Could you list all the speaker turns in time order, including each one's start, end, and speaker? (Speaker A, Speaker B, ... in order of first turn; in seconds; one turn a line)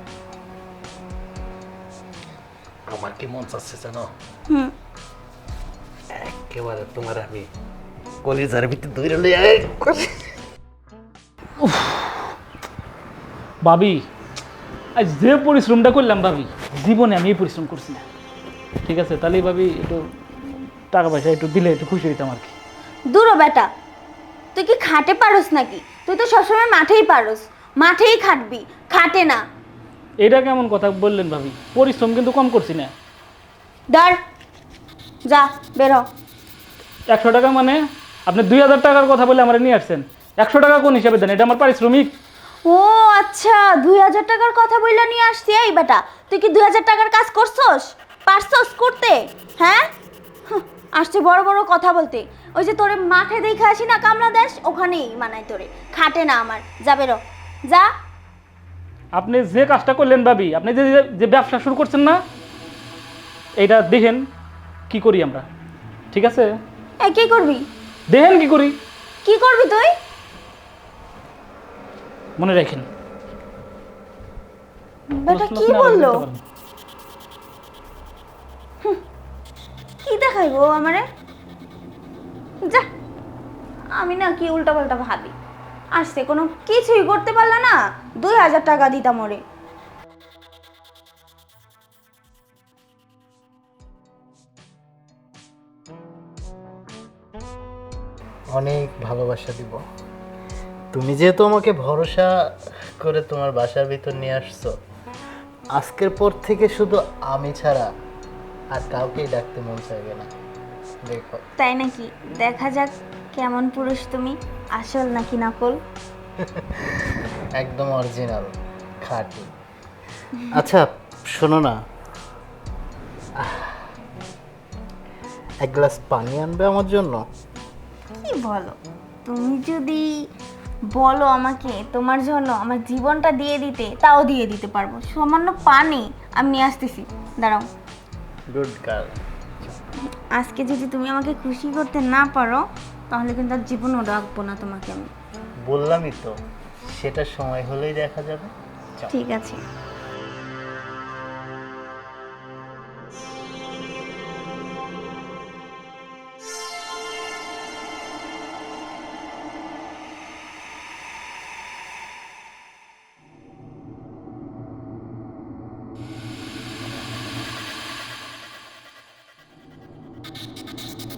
Speaker A: 2.9-4.1
Speaker B: 4.5-4.7
Speaker A: 6.1-7.5
Speaker A: 8.2-10.3
Speaker C: 11.6-12.3
Speaker C: 13.6-14.1
Speaker C: 14.9-18.0
Speaker C: 18.8-22.5
Speaker B: 23.1-23.7
Speaker B: 24.5-29.4
Speaker C: 30.2-32.9
Speaker B: 33.9-34.2
Speaker B: 35.3-36.0
Speaker C: 37.1-42.1
Speaker B: 42.6-49.9
Speaker B: 50.5-57.9
Speaker C: 59.1-62.2
Speaker C: 63.6-64.2
Speaker C: 64.9-65.5
Speaker C: 66.1-66.6
Speaker B: 67.0-67.6
Speaker C: 68.1-68.8
Speaker B: 69.2-69.9
Speaker C: 72.4-72.9
Speaker B: 75.1-76.2
Speaker C: 75.3-76.4
Speaker B: 80.0-81.0
Speaker B: 83.9-85.3
Speaker B: 85.9-89.4
Speaker D: 98.5-99.8
Speaker D: 100.9-102.3
Speaker D: 103.0-104.7
Speaker D: 105.8-107.9
Speaker D: 108.7-110.3
Speaker D: 111.0-111.4
Speaker B: 111.6-115.8
Speaker D: 116.4-117.0
Speaker D: 117.6-118.5
Speaker D: 119.0-119.5
Speaker D: 120.5-121.8
Speaker D: 123.4-123.9
Speaker D: 125.6-127.2
Speaker B: 128.2-130.1
Speaker B: 130.9-137.6
Speaker D: 138.5-139.1
Speaker B: 140.3-145.1
Speaker D: 145.7-146.3
Speaker D: 146.9-149.1
Speaker B: 149.1-149.6